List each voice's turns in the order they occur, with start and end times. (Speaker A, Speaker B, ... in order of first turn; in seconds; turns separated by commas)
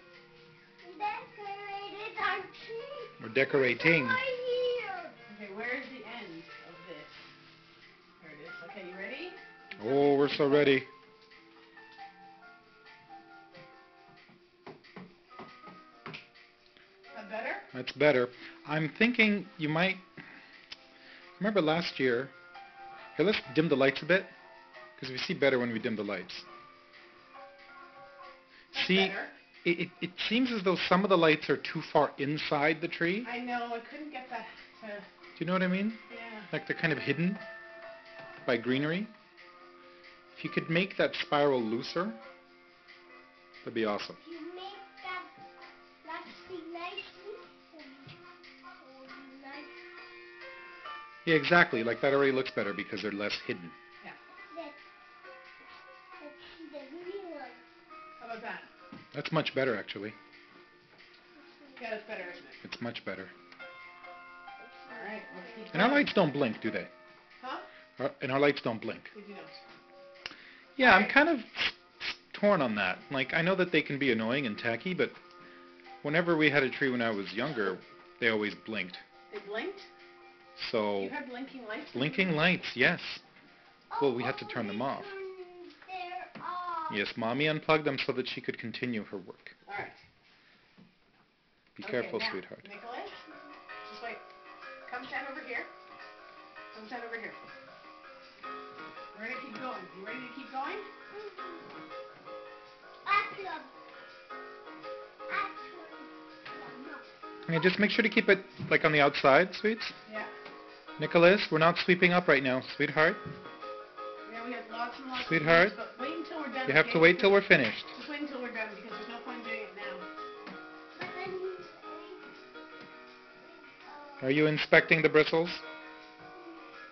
Speaker A: 0.8-5.2, Speaker B: 3.2-4.2, Speaker C: 5.3-7.3, Speaker C: 8.2-10.8, Speaker B: 9.8-10.9, Speaker C: 17.1-17.7, Speaker B: 17.7-20.1, Speaker B: 21.4-22.3, Speaker B: 23.1-24.3, Speaker B: 25.0-26.4, Speaker C: 28.7-29.4, Speaker B: 28.7-33.3, Speaker C: 33.2-35.0, Speaker B: 35.4-37.4, Speaker C: 36.1-36.5, Speaker B: 38.4-39.1, Speaker B: 40.3-42.2, Speaker B: 43.6-44.2, Speaker A: 44.2-45.3, Speaker A: 46.0-48.1, Speaker A: 48.8-49.8, Speaker B: 51.2-53.8, Speaker A: 54.5-54.8, Speaker A: 56.2-57.6, Speaker C: 58.2-58.7, Speaker B: 59.1-60.1, Speaker A: 61.4-62.0, Speaker C: 61.8-62.6, Speaker B: 62.6-63.3, Speaker A: 64.6-66.0, Speaker C: 64.9-66.2, Speaker B: 65.7-66.9, Speaker C: 67.4-67.7, Speaker B: 68.0-69.1, Speaker C: 69.1-69.6, Speaker B: 70.8-75.2, Speaker C: 70.8-71.1, Speaker B: 76.0-79.0, Speaker C: 79.3-79.9, Speaker B: 80.5-81.2, Speaker C: 81.0-82.5, Speaker B: 81.9-83.2, Speaker A: 83.9-87.0, Speaker B: 84.0-85.1, Speaker B: 86.9-89.5, Speaker C: 89.6-90.0, Speaker B: 91.8-92.7, Speaker C: 91.8-93.3, Speaker C: 93.8-94.2, Speaker C: 94.8-95.7, Speaker C: 96.7-97.4, Speaker C: 99.1-100.9, Speaker A: 101.1-101.6, Speaker A: 103.0-103.7, Speaker A: 105.3-107.0, Speaker B: 107.5-110.0, Speaker C: 110.0-110.3, Speaker B: 111.0-113.2, Speaker C: 114.2-120.0, Speaker B: 115.1-115.8, Speaker B: 116.6-117.9, Speaker A: 120.9-122.3, Speaker A: 123.4-124.4, Speaker B: 124.2-125.6, Speaker A: 126.3-126.7